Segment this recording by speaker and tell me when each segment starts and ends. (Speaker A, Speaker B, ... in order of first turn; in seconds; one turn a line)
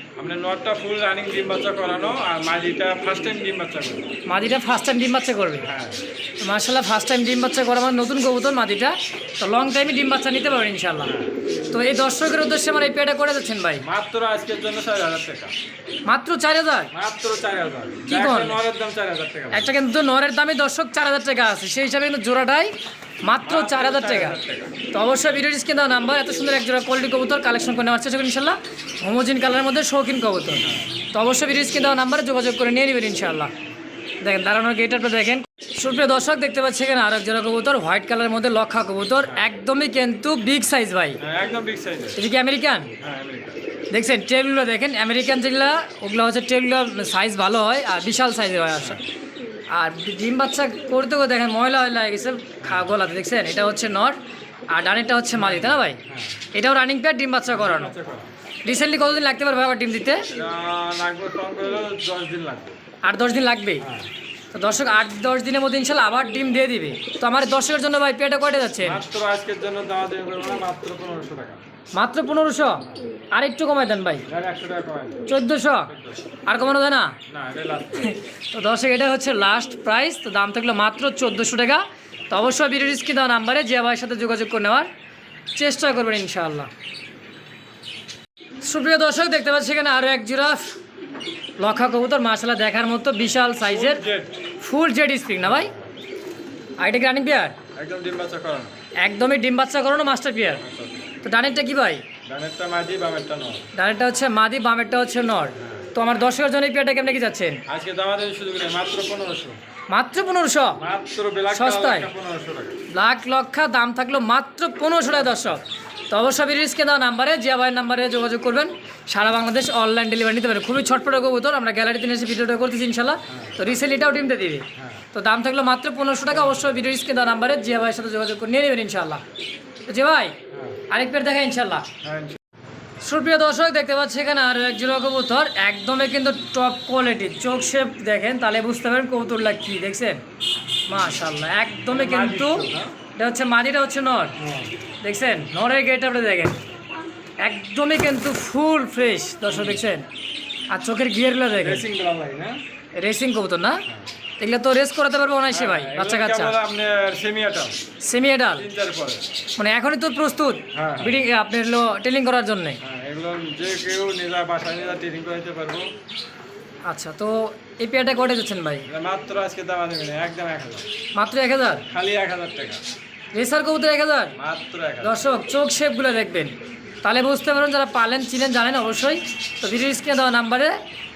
Speaker A: 0.2-4.0
Speaker B: 4.2-5.7
Speaker A: 5.6-6.0
Speaker B: 6.4-11.1
Speaker A: 11.0-11.3
Speaker B: 11.7-13.8
Speaker A: 13.8-15.5
Speaker B: 16.1-16.9
Speaker A: 16.9-19.7
Speaker B: 18.1-18.6
Speaker B: 19.5-22.7
Speaker B: 23.2-24.4
Speaker A: 23.4-24.7
Speaker B: 24.9-33.5
Speaker B: 34.2-41.2
Speaker A: 41.2-42.2
Speaker B: 42.1-42.9
Speaker A: 43.0-43.6
Speaker B: 43.9-49.0
Speaker A: 48.7-49.0
Speaker B: 49.7-54.2
Speaker A: 52.6-52.9
Speaker B: 54.7-56.0
Speaker A: 55.3-56.4
Speaker B: 56.5-57.9
Speaker A: 57.5-58.3
Speaker B: 58.6-60.2
Speaker A: 60.3-62.7
Speaker B: 63.0-63.8
Speaker A: 63.8-64.1
Speaker B: 64.5-69.0
Speaker A: 68.8-71.6
Speaker B: 72.0-72.8
Speaker B: 73.3-74.2
Speaker A: 74.3-75.3
Speaker B: 75.3-75.9
Speaker A: 75.8-76.2
Speaker B: 76.5-77.2
Speaker A: 77.3-78.1
Speaker B: 78.0-84.9
Speaker B: 85.5-86.7
Speaker B: 88.6-90.7
Speaker B: 91.6-94.0
Speaker A: 93.7-94.4
Speaker B: 94.6-95.7
Speaker A: 95.4-95.9
Speaker B: 96.8-97.6
Speaker A: 97.8-98.8
Speaker B: 99.0-100.6
Speaker A: 100.6-101.0
Speaker B: 101.2-102.0
Speaker A: 102.3-103.6
Speaker B: 103.7-107.6
Speaker A: 105.6-105.8
Speaker A: 107.7-109.6
Speaker B: 109.9-110.8
Speaker A: 110.8-112.8
Speaker B: 111.5-112.1
Speaker B: 112.9-129.2
Speaker A: 124.8-125.0
Speaker A: 126.3-126.7
Speaker B: 129.9-130.3
Speaker A: 130.5-130.8
Speaker B: 130.9-131.8
Speaker A: 132.0-132.4
Speaker B: 133.0-140.2
Speaker B: 140.9-144.3
Speaker A: 141.9-142.9
Speaker A: 144.4-144.7
Speaker B: 145.0-146.6
Speaker B: 147.4-150.1
Speaker A: 149.5-149.8
Speaker B: 150.7-151.8
Speaker A: 151.6-152.6
Speaker B: 152.9-153.8
Speaker B: 154.4-156.6
Speaker A: 155.5-157.8
Speaker B: 158.0-158.6
Speaker A: 158.5-159.2
Speaker B: 159.6-162.8
Speaker A: 160.7-161.2
Speaker A: 162.8-165.9
Speaker B: 166.9-168.9
Speaker A: 168.9-170.9
Speaker B: 171.2-171.8
Speaker A: 171.9-172.8
Speaker B: 173.3-174.3
Speaker A: 174.4-175.2
Speaker B: 175.0-180.7